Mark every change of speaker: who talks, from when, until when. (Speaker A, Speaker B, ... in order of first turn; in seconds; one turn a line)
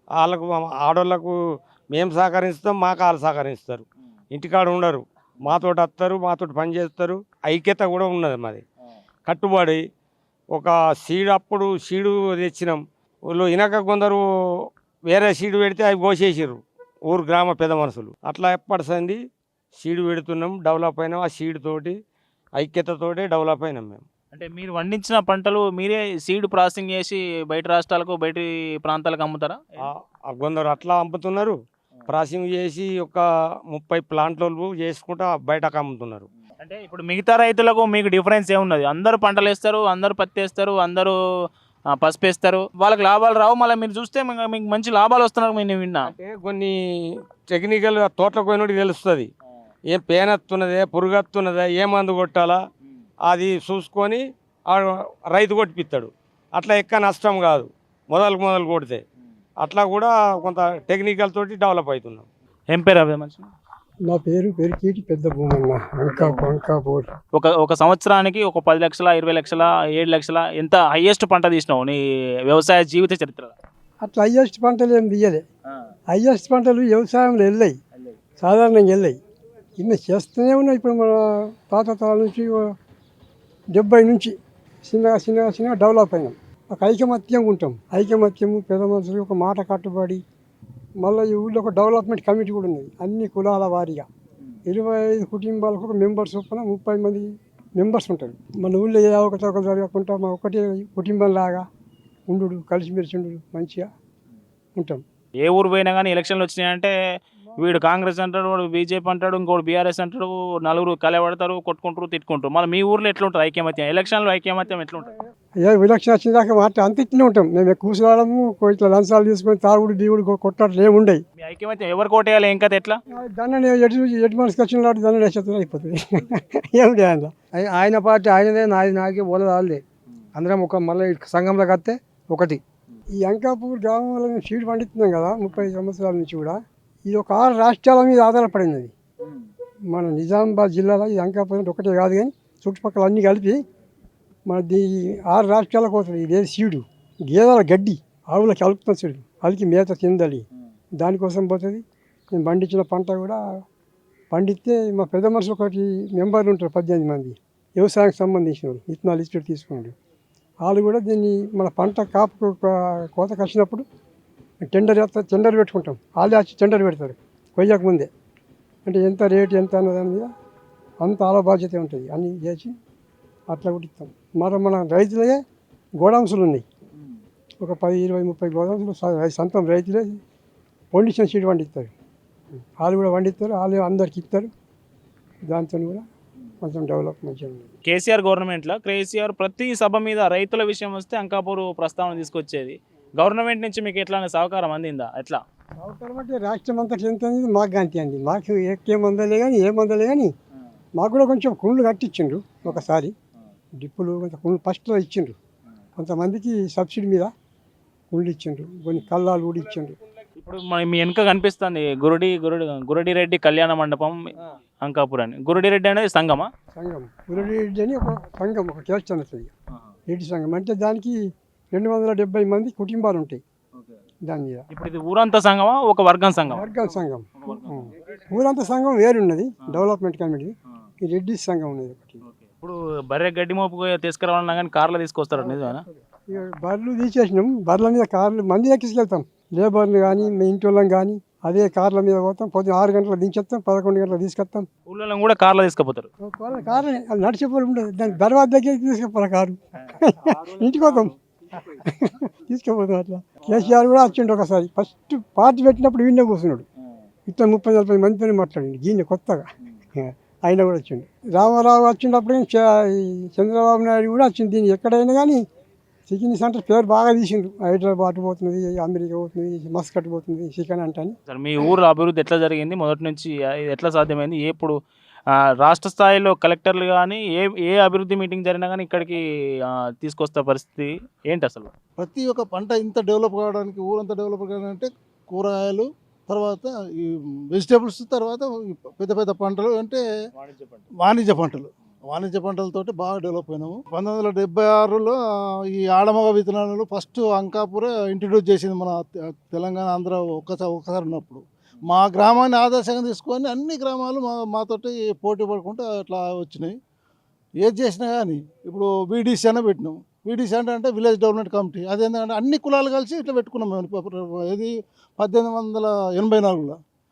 Speaker A: 0.2-1.3
Speaker A: 1.9-8.6
Speaker A: 9.3-9.8
Speaker A: 10.5-14.2
Speaker A: 15.1-19.2
Speaker A: 19.8-22.0
Speaker A: 22.6-24.0
Speaker B: 24.3-29.6
Speaker A: 29.8-31.5
Speaker A: 32.1-36.2
Speaker B: 36.6-41.1
Speaker B: 42.0-46.1
Speaker A: 46.0-49.3
Speaker A: 49.9-52.6
Speaker A: 53.3-59.0
Speaker A: 59.6-62.2
Speaker B: 62.7-63.5
Speaker C: 64.1-67.1
Speaker B: 66.1-66.4
Speaker B: 67.3-73.5
Speaker C: 74.0-75.4
Speaker C: 76.1-77.8
Speaker C: 78.4-79.2
Speaker C: 79.8-82.7
Speaker C: 83.7-84.3
Speaker C: 84.8-90.2
Speaker C: 91.0-94.1
Speaker C: 94.7-101.7
Speaker C: 102.3-103.9
Speaker C: 104.8-105.0
Speaker B: 105.4-106.9
Speaker B: 107.6-115.1
Speaker C: 115.6-121.2
Speaker B: 121.4-123.0
Speaker C: 123.2-127.3
Speaker D: 127.6-129.8
Speaker D: 130.3-132.6
Speaker C: 133.2-138.9
Speaker C: 139.9-143.6
Speaker C: 144.5-150.4
Speaker C: 151.0-153.4
Speaker C: 154.3-159.9
Speaker C: 160.6-163.8
Speaker C: 164.7-168.1
Speaker C: 168.8-170.3
Speaker C: 171.0-172.7
Speaker C: 173.5-175.4
Speaker C: 176.0-176.6
Speaker C: 177.6-180.2
Speaker C: 180.9-181.9
Speaker C: 182.8-184.5
Speaker C: 185.5-186.0
Speaker C: 186.6-187.7
Speaker B: 187.8-195.4
Speaker C: 195.8-200.3
Speaker C: 200.9-203.1
Speaker C: 203.8-205.3
Speaker C: 206.0-207.3
Speaker C: 208.1-210.0
Speaker B: 210.4-216.5
Speaker C: 216.8-219.5
Speaker C: 220.1-221.2
Speaker C: 221.7-223.4
Speaker C: 224.2-224.6
Speaker B: 224.7-226.7
Speaker C: 226.5-230.5
Speaker B: 227.4-227.9
Speaker C: 231.0-232.2
Speaker B: 232.2-235.8
Speaker C: 235.4-244.7
Speaker B: 244.9-246.1
Speaker C: 246.2-256.6
Speaker B: 250.4-251.1
Speaker C: 257.3-265.4
Speaker C: 266.1-271.1
Speaker B: 271.3-274.8
Speaker B: 275.6-281.7
Speaker E: 282.0-290.0
Speaker B: 290.3-290.9
Speaker E: 291.0-295.1
Speaker E: 295.7-299.0
Speaker E: 299.5-306.8
Speaker E: 307.6-316.8